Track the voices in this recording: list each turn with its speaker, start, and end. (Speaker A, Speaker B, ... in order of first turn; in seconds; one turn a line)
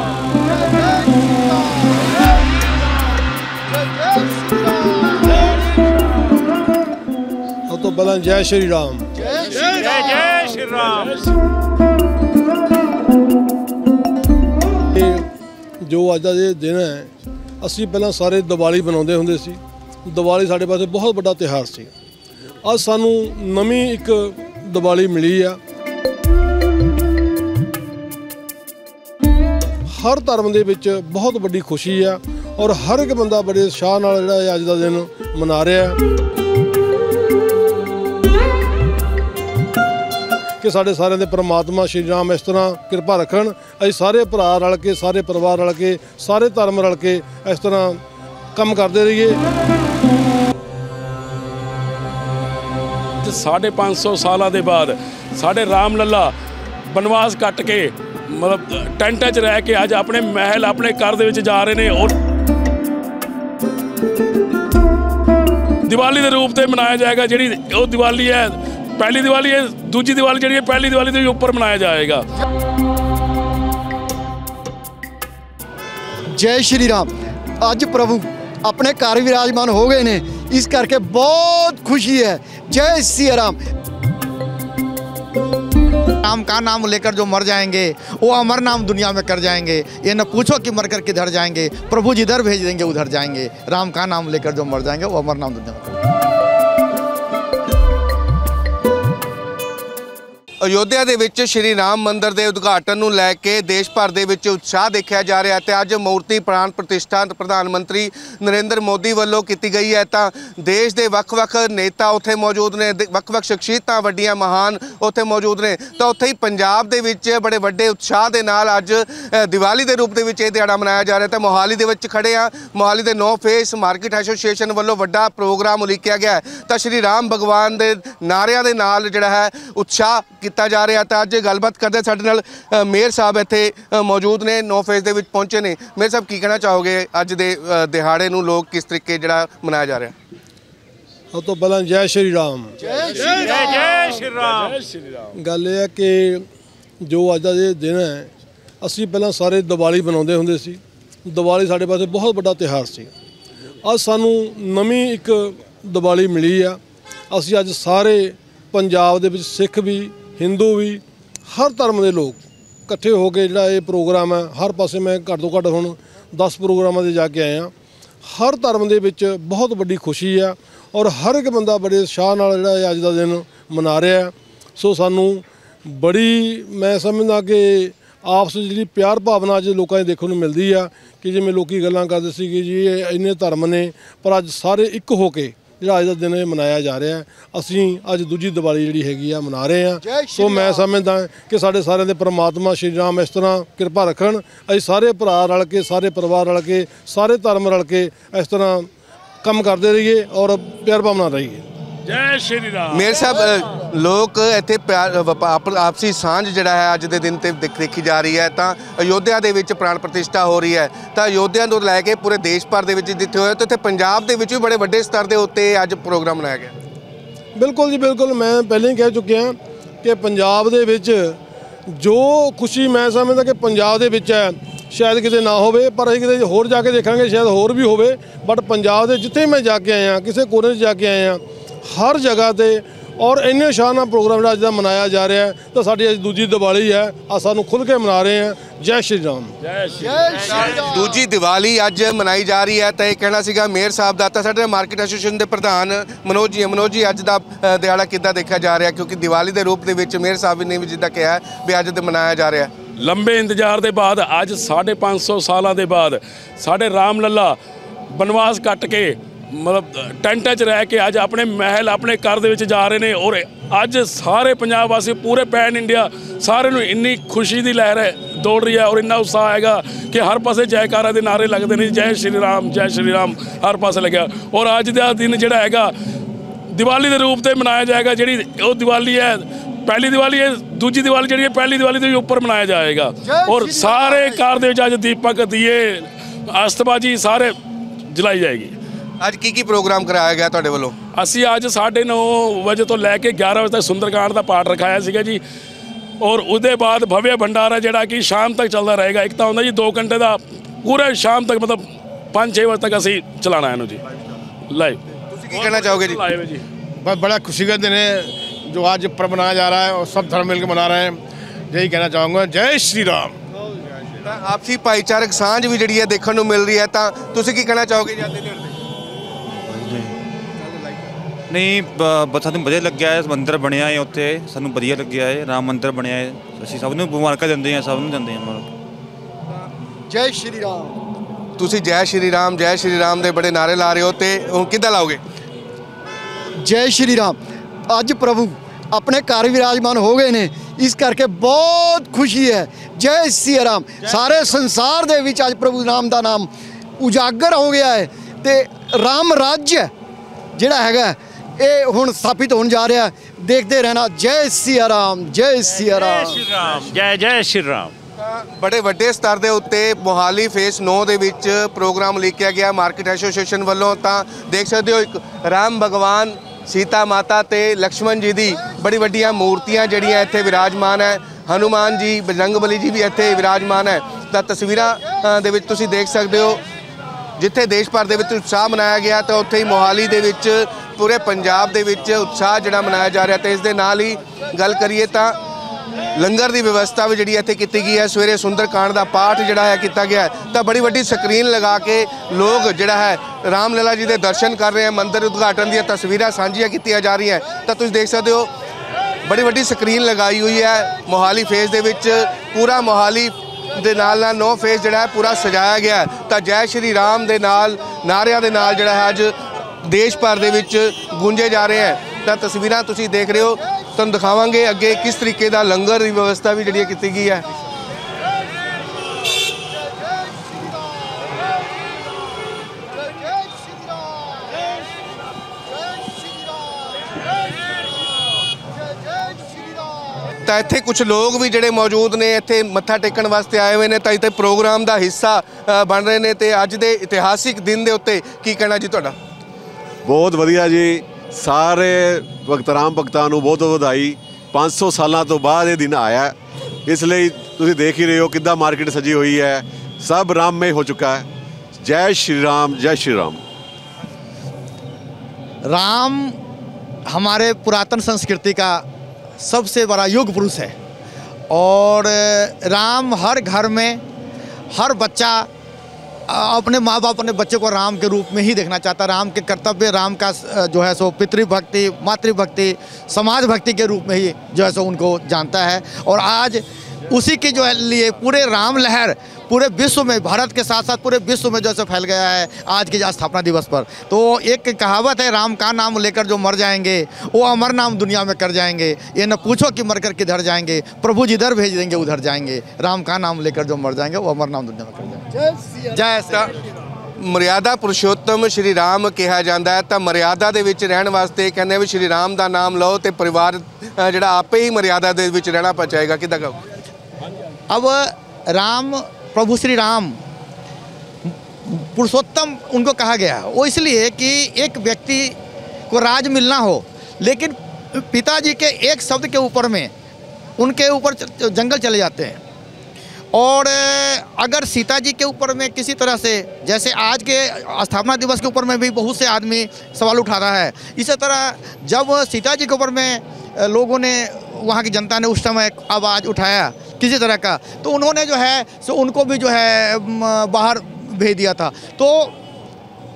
Speaker A: 0.5-1.6
Speaker A: 3.8-5.0
Speaker B: 7.7-9.1
Speaker A: 9.2-9.7
Speaker C: 10.0-11.1
Speaker B: 14.9-15.3
Speaker B: 15.8-21.9
Speaker B: 22.6-25.6
Speaker B: 29.9-36.0
Speaker B: 40.6-48.0
Speaker B: 48.5-49.4
Speaker D: 53.2-56.3
Speaker D: 56.9-62.1
Speaker D: 65.9-72.2
Speaker A: 76.3-83.6
Speaker E: 86.2-96.0
Speaker F: 100.6-140.1
Speaker B: 141.3-143.5
Speaker A: 142.9-143.7
Speaker C: 143.5-144.7
Speaker B: 145.3-146.4
Speaker B: 147.0-148.3
Speaker B: 148.8-153.1
Speaker B: 153.8-156.8
Speaker B: 157.3-167.7
Speaker B: 168.2-198.9
Speaker A: 190.0-190.9
Speaker B: 199.4-201.7
Speaker D: 202.1-203.1
Speaker F: 202.9-216.7
Speaker B: 217.6-239.5
Speaker D: 239.7-240.7
Speaker A: 240.0-241.1
Speaker F: 240.5-252.7
Speaker D: 253.0-257.6
Speaker D: 258.1-275.9
Speaker D: 276.7-287.5
Speaker A: 283.2-284.4
Speaker D: 288.1-288.7
Speaker F: 289.2-291.0
Speaker D: 291.1-295.4
Speaker D: 296.2-301.8
Speaker D: 302.3-304.0
Speaker D: 304.7-305.0
Speaker F: 305.3-306.2
Speaker D: 305.5-306.6
Speaker G: 307.0-313.4
Speaker F: 314.2-318.8
Speaker H: 319.6-320.1
Speaker H: 321.5-328.7
Speaker A: 330.1-331.0
Speaker F: 331.6-335.2
Speaker A: 336.6-337.4
Speaker A: 337.9-349.9
Speaker A: 350.5-356.5
Speaker C: 356.1-357.9
Speaker F: 358.2-376.6
Speaker F: 377.4-385.4
Speaker F: 386.1-398.5
Speaker F: 399.2-417.4
Speaker F: 430.4-439.1
Speaker I: 440.0-446.3
Speaker I: 446.9-451.2
Speaker I: 451.8-453.4
Speaker E: 455.6-456.4
Speaker E: 457.1-458.9
Speaker E: 459.4-460.7
Speaker E: 461.5-464.0
Speaker E: 464.7-465.5
Speaker E: 466.3-495.2
Speaker E: 495.8-496.4
Speaker F: 497.2-506.6
Speaker E: 507.7-510.2
Speaker E: 511.6-515.4
Speaker E: 515.9-519.9
Speaker E: 520.6-522.4
Speaker E: 523.3-542.3